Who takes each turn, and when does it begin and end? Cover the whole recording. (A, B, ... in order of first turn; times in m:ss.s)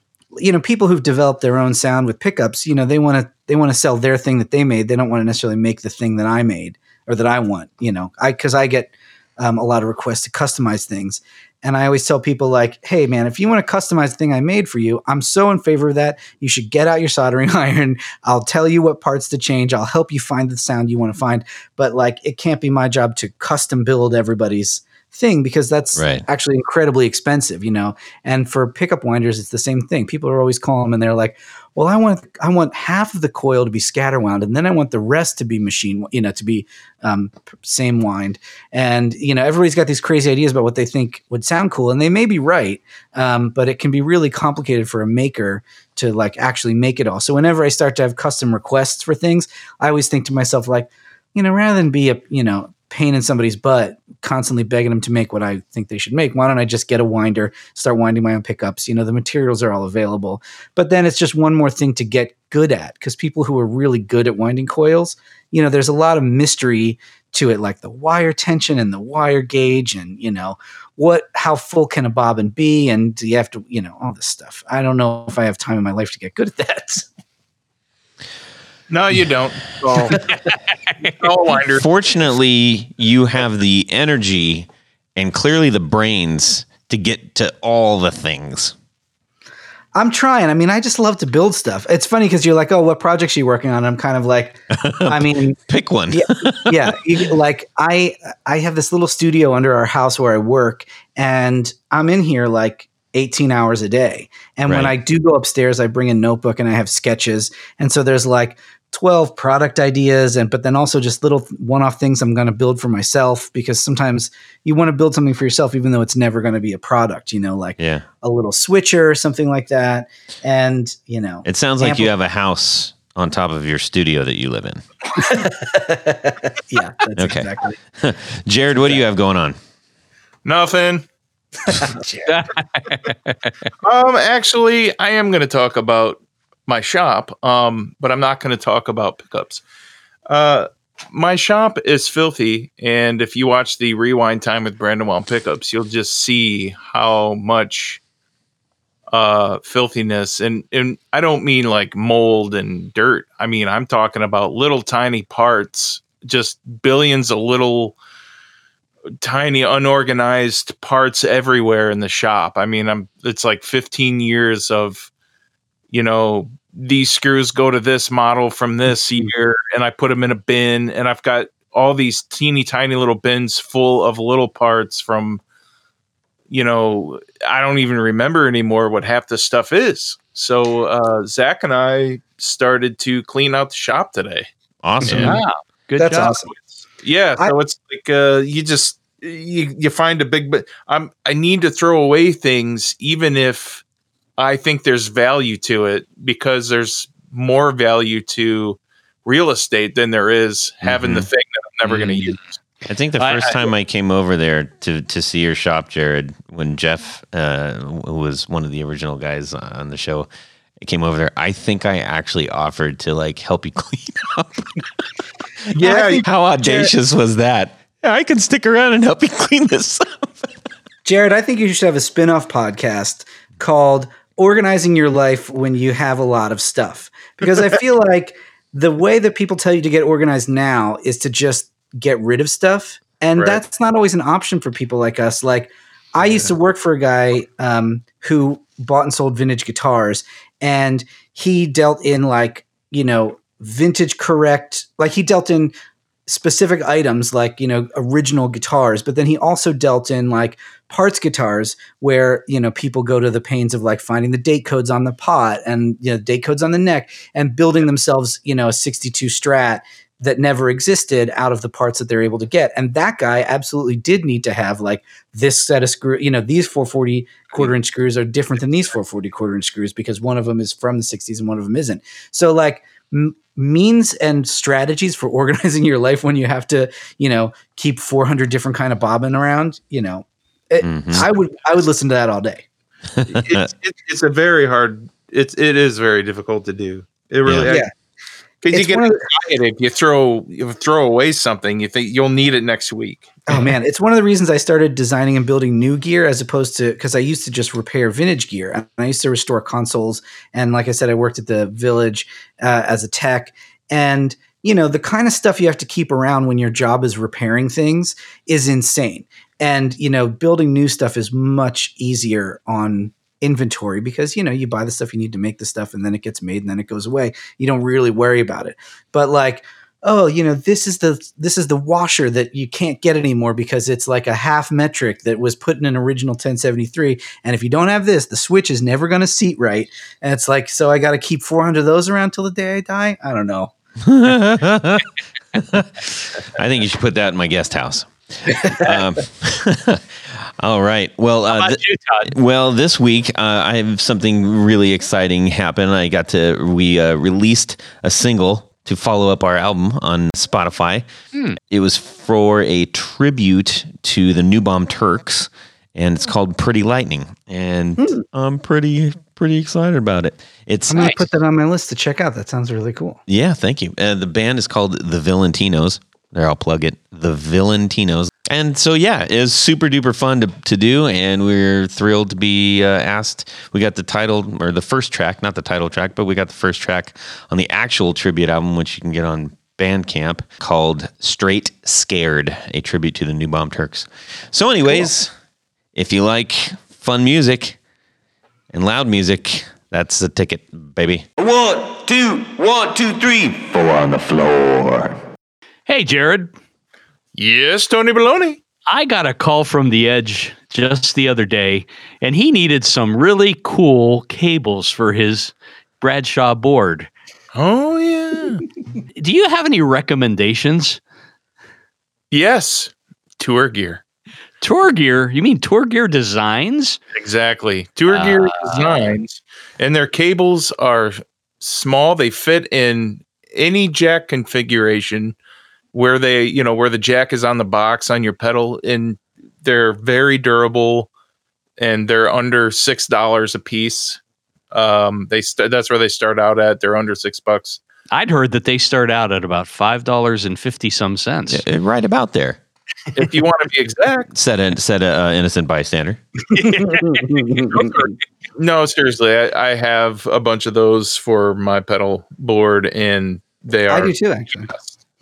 0:00.4-1:17.1 A
0:26.0-0:26.2 B
1:18.9-1:20.3 C
1:21.0-1:21.9 C
1:21.7-1:28.8 B
1:30.0-1:35.6 A
1:34.7-1:37.2 B
1:36.1-2:02.1 A
1:44.7-1:45.0 B
1:57.8-1:58.0 B
2:01.5-2:04.8 B
2:05.2-2:07.8 A
2:07.2-2:07.5 B
2:08.0-2:09.6 B
2:10.4-2:11.1 C
2:11.7-2:12.3 A
2:12.3-2:13.7 D
2:13.8-2:19.6 C
2:20.3-2:28.0 C
2:29.1-2:38.0 C
2:39.2-2:45.1 C
2:45.9-2:55.4 C
2:56.5-3:04.5 C
3:04.8-3:05.4 B
3:05.0-3:05.4 C
3:05.0-3:06.5 D
3:06.0-3:06.5 A
3:07.0-3:13.8 C
3:14.4-3:22.6 C
3:20.8-3:21.3 B
3:21.9-3:22.4 D
3:22.9-3:30.3 B
3:23.2-3:23.7 D
3:30.8-3:35.0 B
3:35.8-3:36.9 A
3:35.8-3:40.5 B
3:35.8-3:36.2 C
3:41.0-4:05.7 A
3:53.4-3:53.6 C
4:06.3-4:42.6 A
4:40.8-4:41.3 B
4:43.2-4:43.7 B
4:43.2-4:47.9 C
4:47.4-4:47.7 B
4:48.6-4:53.3 C
4:48.7-4:49.2 A
4:53.5-5:33.7 A
5:34.0-5:51.1 B
5:41.5-5:42.3 D
5:51.3-5:51.6 D
5:51.7-6:01.2 B
6:00.9-6:03.2 A
6:03.3-6:25.3 B
6:26.0-6:27.8 B
6:28.7-6:31.3 B
6:31.4-6:35.2 E
6:35.9-6:36.5 D
6:37.4-6:38.6 C
6:38.9-6:47.1 D
6:47.5-6:48.6 C
6:49.2-6:51.0 D
6:52.3-6:54.0 C
6:54.6-6:57.0 D
6:57.2-7:05.4 C
6:58.1-6:59.1 D
7:05.9-7:11.1 C
7:11.8-7:14.2 C
7:14.7-7:17.8 C
7:18.1-7:21.6 D
7:21.5-7:22.6 B
7:23.2-7:24.3 C
7:24.3-7:26.2 B
7:26.6-7:27.3 D
7:26.6-7:28.0 A
7:27.6-7:34.1 C
7:33.9-7:34.7 A
7:34.6-7:34.9 C